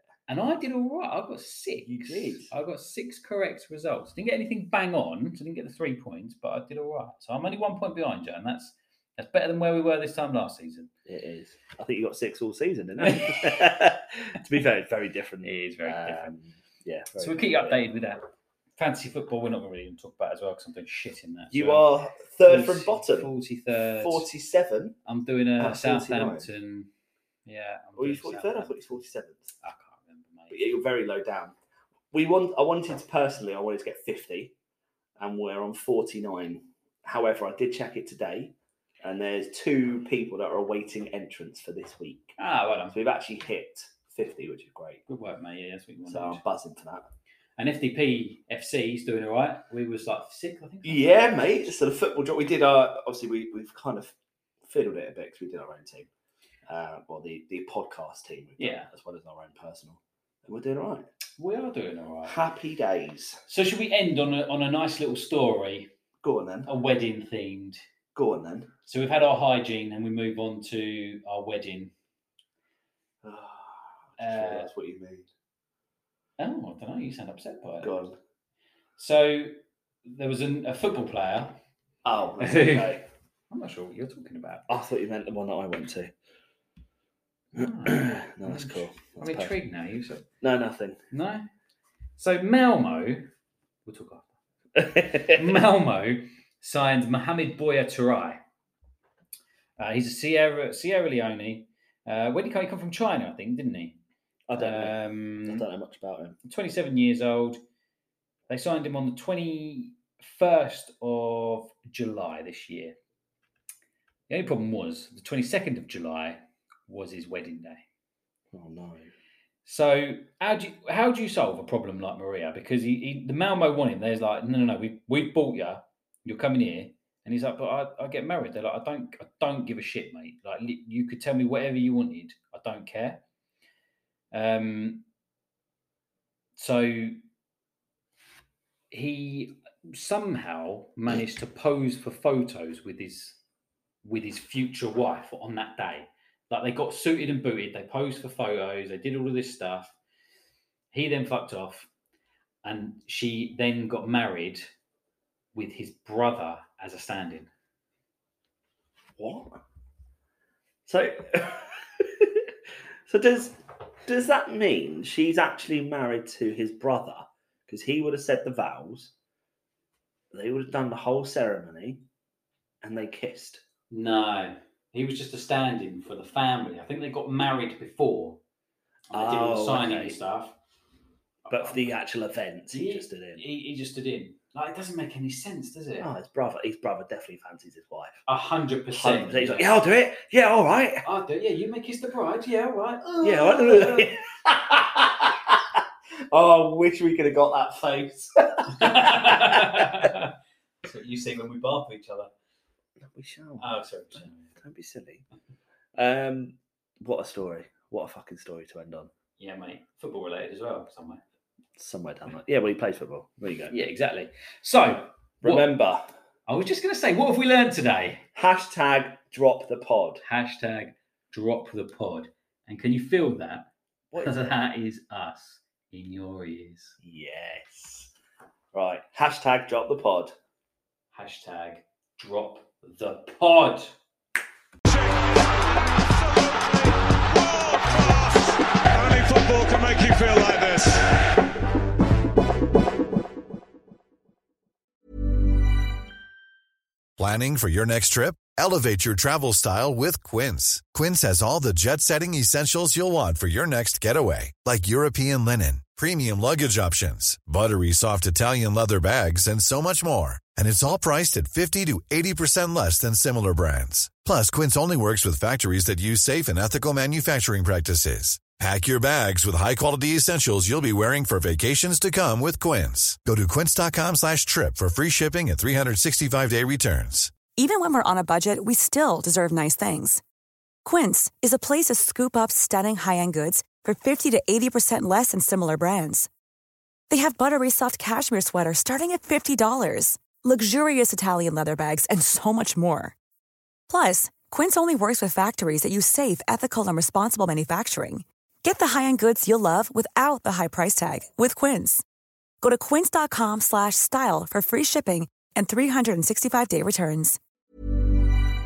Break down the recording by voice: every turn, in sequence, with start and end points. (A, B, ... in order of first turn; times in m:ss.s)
0:00.3-0:10.9 A
0:01.8-0:02.5 B
0:11.1-0:17.8 B
0:13.0-0:13.6 A
0:15.4-0:16.3 A
0:17.2-0:18.2 A
0:18.8-0:21.9 A
0:21.5-0:23.3 B
0:22.4-0:24.3 A
0:24.0-0:25.0 B
0:25.0-0:26.9 A
0:25.6-0:26.5 B
0:27.4-0:28.7 A
0:28.0-0:29.5 B
0:29.6-0:30.6 A
0:30.5-0:31.5 B
0:32.1-0:34.5 B
0:35.2-0:42.4 B
0:42.4-0:43.0 A
0:42.9-0:45.0 B
0:45.1-0:46.4 A
0:46.1-0:47.1 B
0:47.6-0:51.7 A
0:50.8-0:54.1 B
0:54.6-0:56.1 B
0:56.7-1:01.1 B
0:58.6-0:58.9 A
1:01.4-1:02.4 A
1:02.2-1:03.4 B
1:03.5-1:05.9 A
1:06.2-1:06.7 B
1:06.6-1:07.8 A
1:08.1-1:08.7 B
1:08.8-1:11.9 A
1:13.2-1:15.3 B
1:14.2-1:14.7 A
1:16.4-1:17.9 A
1:17.8-1:18.2 B
1:19.0-1:21.6 A
1:22.0-1:23.0 B
1:22.4-1:22.9 A
1:23.5-1:24.7 A
1:24.7-1:26.1 B
1:27.5-1:30.2 A
1:27.6-1:29.5 B
1:30.4-1:31.0 B
1:31.1-1:31.5 A
1:32.2-1:33.3 A
1:33.8-1:34.3 A
1:34.7-1:35.6 B
1:35.3-1:38.4 A
1:39.8-1:44.0 A
1:44.5-1:46.4 B
1:44.6-1:45.6 A
1:46.4-1:47.6 A
1:48.5-1:53.0 A
1:54.3-1:57.8 A
1:58.5-1:59.1 B
1:59.6-2:13.2 A
2:14.3-2:15.0 A
2:16.6-2:17.2 A
2:18.9-2:23.4 A
2:24.0-2:29.9 A
2:30.9-2:31.9 A
2:32.6-2:34.7 A
2:35.5-2:37.5 A
2:39.2-2:39.6 B
2:40.8-2:42.5 B
2:43.1-2:49.1 B
2:50.3-2:52.0 B
2:52.8-2:53.6 B
2:53.9-2:58.4 A
2:59.1-3:00.6 A
2:59.1-3:00.2 B
3:01.4-3:02.0 A
3:01.5-3:03.4 B
3:02.7-3:06.1 A
3:06.0-3:08.2 B
3:08.3-3:09.8 A
3:08.9-3:11.0 B
3:11.0-3:14.2 A
3:13.2-3:15.6 B
3:16.3-3:20.1 B
3:18.7-3:20.3 A
3:20.8-3:22.3 A
3:23.0-3:25.2 B
3:23.6-3:24.5 A
3:26.0-3:29.1 B
3:29.4-3:31.2 A
3:31.8-3:33.7 B
3:33.7-3:35.7 A
3:35.4-3:36.1 B
3:36.5-3:38.2 A
3:38.3-3:40.2 B
3:40.2-3:47.0 A
3:44.1-3:44.5 B
3:47.0-3:48.1 B
3:48.7-3:50.3 B
3:51.1-3:54.0 A
3:54.9-4:01.3 C
4:07.2-4:37.4 D
4:37.5-4:40.2 E
4:40.8-4:46.3 E
4:47.1-4:53.1 E
4:53.9-5:02.0 E
5:02.6-5:07.4 E